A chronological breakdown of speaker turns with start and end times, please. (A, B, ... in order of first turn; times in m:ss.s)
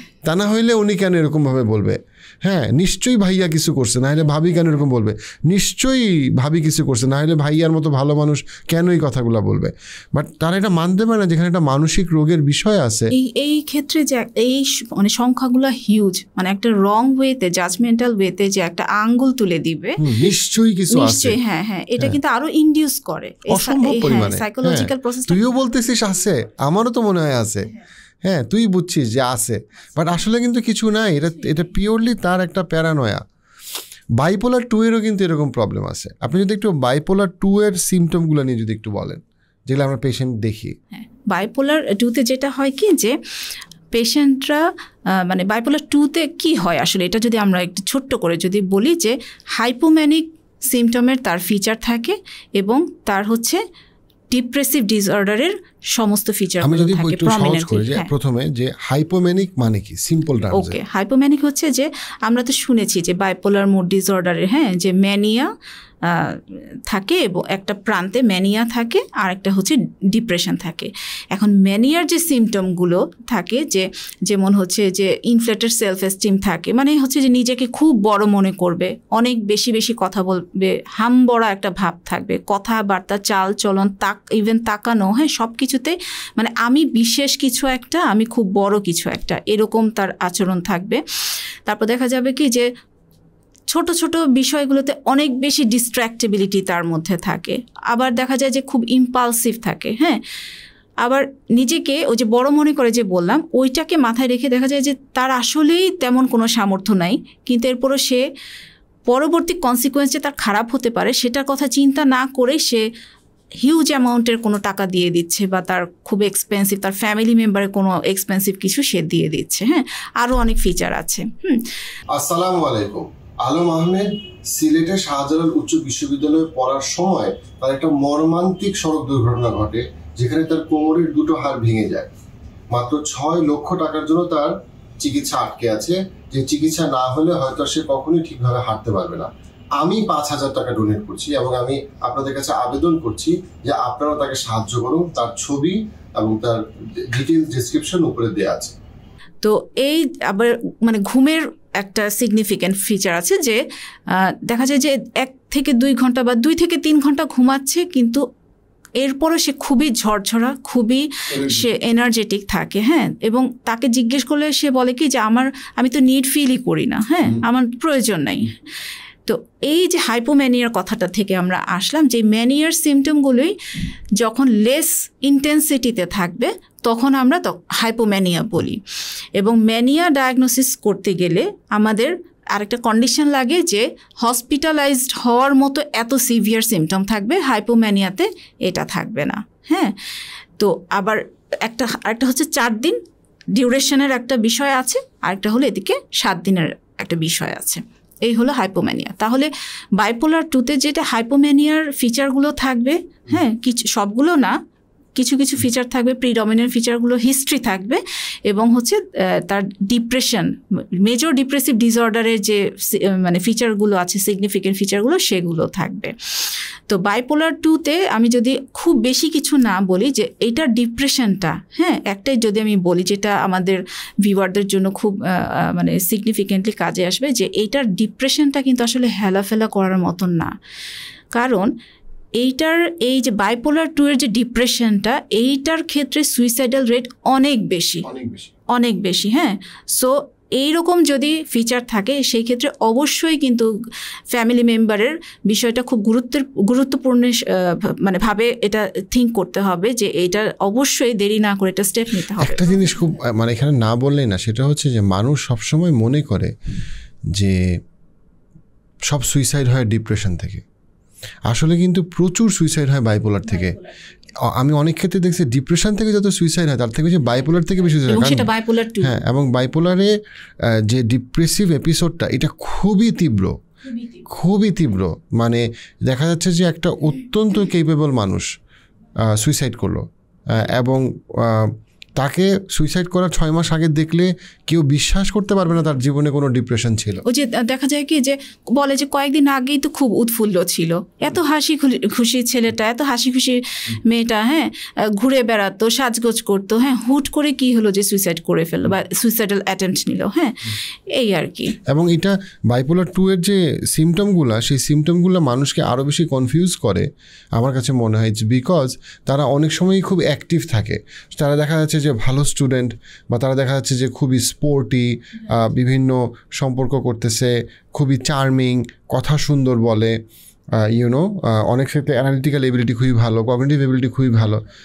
0:00.2-0:13.1 A
0:13.1-0:20.0 B
0:20.0-0:21.4 A
0:20.9-0:25.6 B
0:23.5-0:27.7 A
0:28.2-0:33.2 A
0:34.2-0:40.8 A
0:40.9-0:43.2 B
0:43.9-0:53.6 B
0:54.3-0:58.1 B
0:56.6-1:00.8 A
1:00.5-1:05.5 B
1:06.0-1:32.7 B
1:33.7-1:40.2 B
1:41.0-1:48.2 B
1:49.1-1:52.8 B
1:53.6-2:01.6 B
2:02.1-2:12.1 A
2:12.7-2:28.8 A
2:29.4-2:38.2 B
2:39.0-2:48.6 B
2:41.3-2:41.7 A
2:49.2-2:53.5 B
2:54.2-2:58.8 B
2:59.4-3:10.0 B
3:10.6-3:13.0 B
3:13.5-3:24.6 B
3:25.2-3:50.5 B
3:51.3-3:51.7 B
3:52.4-3:58.0 B
3:58.0-3:58.5 A
3:58.7-4:03.7 B
4:04.3-4:12.6 B
4:12.4-4:16.5 A
4:17.3-4:17.6 A
4:19.1-4:20.6 A
4:21.5-4:23.8 A
4:24.4-4:30.1 A
4:28.0-4:29.1 B
4:30.6-4:33.6 A
4:34.2-4:38.5 A
4:39.2-4:47.2 A
4:47.2-5:01.8 B
5:01.8-5:20.2 A
5:20.7-5:24.6 A